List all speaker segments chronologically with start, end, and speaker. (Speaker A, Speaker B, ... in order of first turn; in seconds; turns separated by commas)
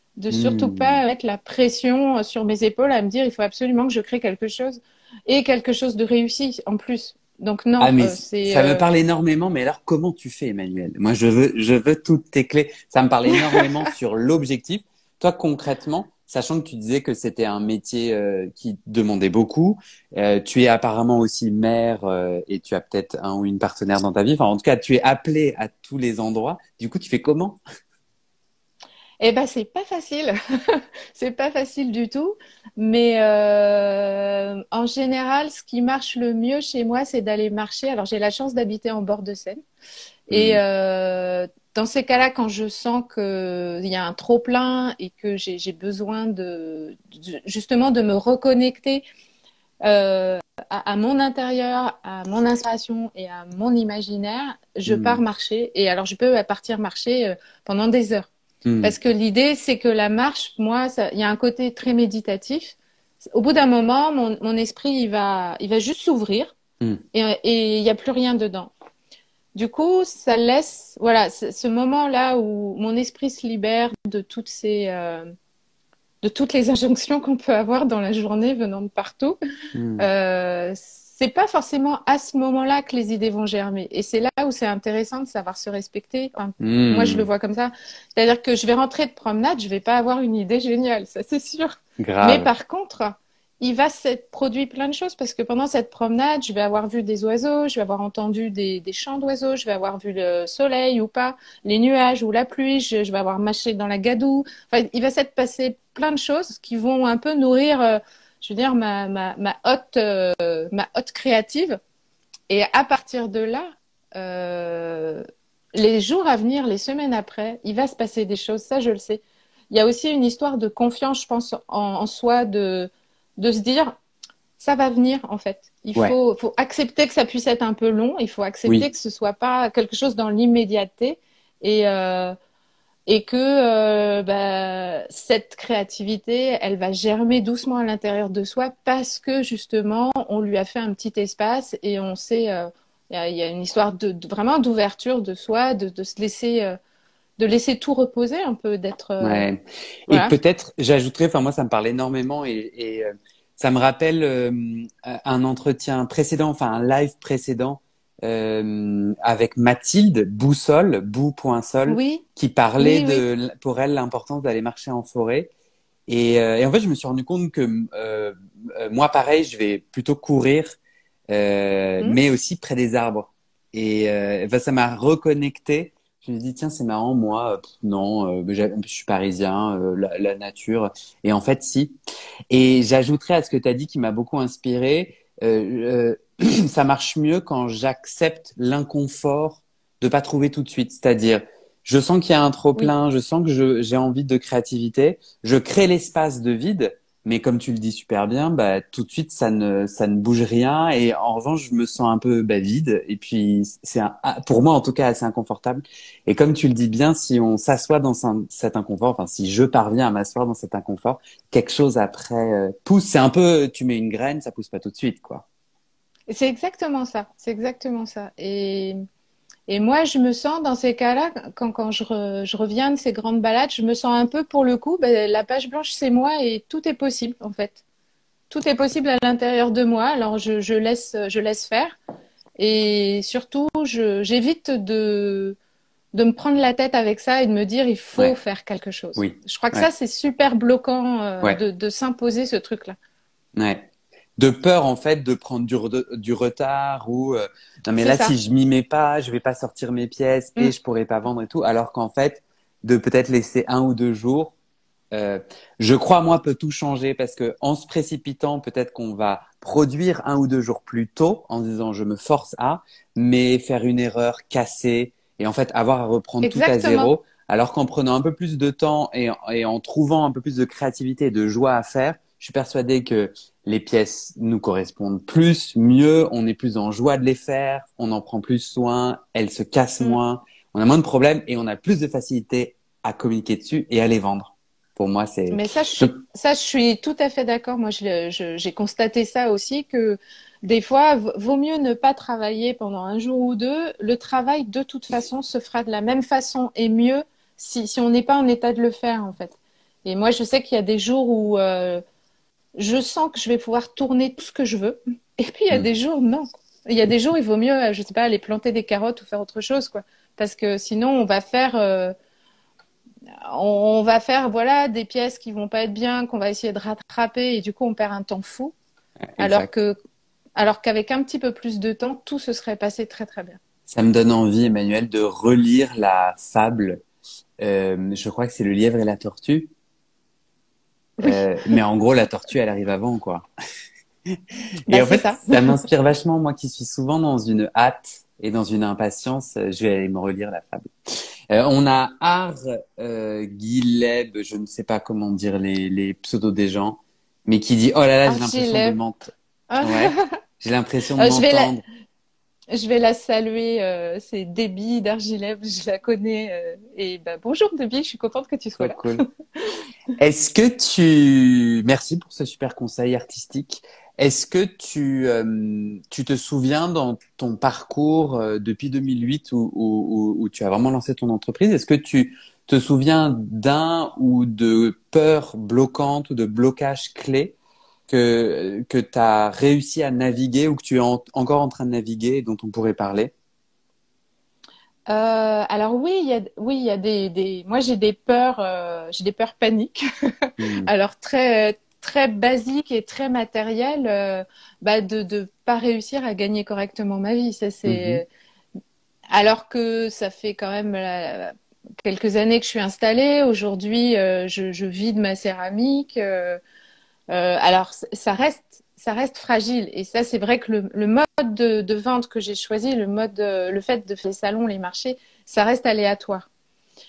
Speaker A: 0.2-8.9, Speaker B: 0.3-1.0, Speaker B: 7.8-27.6, Speaker A: 13.3-13.7, Speaker A: 29.2-39.6, Speaker A: 40.3-49.0, Speaker B: 40.3-40.6, Speaker A: 49.8-58.3, Speaker B: 54.9-55.2, Speaker B: 58.6-58.9, Speaker A: 58.8-66.5, Speaker A: 67.1-68.7, Speaker A: 69.5-75.3, Speaker A: 76.2-79.4, Speaker B: 79.7-80.1, Speaker A: 80.0-111.8, Speaker B: 86.6-87.3, Speaker B: 92.0-92.5, Speaker A: 112.5-115.2, Speaker A: 115.7-124.0, Speaker A: 124.6-132.3, Speaker A: 133.1-146.8, Speaker A: 147.4-149.5, Speaker B: 149.2-165.5, Speaker A: 150.1-150.3, Speaker A: 161.9-162.2, Speaker A: 162.8-163.2, Speaker B: 166.1-170.8, Speaker B: 171.3-181.9, Speaker B: 182.5-215.4, Speaker A: 216.3-219.0, Speaker A: 219.7-227.8, Speaker A: 228.5-232.0, Speaker A: 232.6-235.6, Speaker A: 236.1-242.9, Speaker B: 239.2-239.9, Speaker B: 243.6-254.5, Speaker A: 248.0-248.3, Speaker B: 255.1-286.2, Speaker A: 266.4-267.1, Speaker A: 285.5-302.0, Speaker A: 302.8-312.1, Speaker A: 313.4-318.7, Speaker B: 319.3-319.7, Speaker A: 319.4-320.0, Speaker A: 320.6-323.6, Speaker B: 323.9-327.0, Speaker B: 327.6-329.7, Speaker A: 331.2-331.8, Speaker B: 331.2-333.5, Speaker B: 334.9-340.9, Speaker A: 334.9-335.8, Speaker B: 341.5-351.8, Speaker A: 348.3-349.0, Speaker A: 349.7-350.2, Speaker A: 351.2-351.7, Speaker A: 352.7-359.8, Speaker B: 358.8-359.2, Speaker B: 360.2-377.6, Speaker B: 378.1-383.3, Speaker A: 385.1-398.2, Speaker B: 390.6-390.9, Speaker B: 397.8-398.2, Speaker A: 399.3-406.6, Speaker A: 407.3-416.5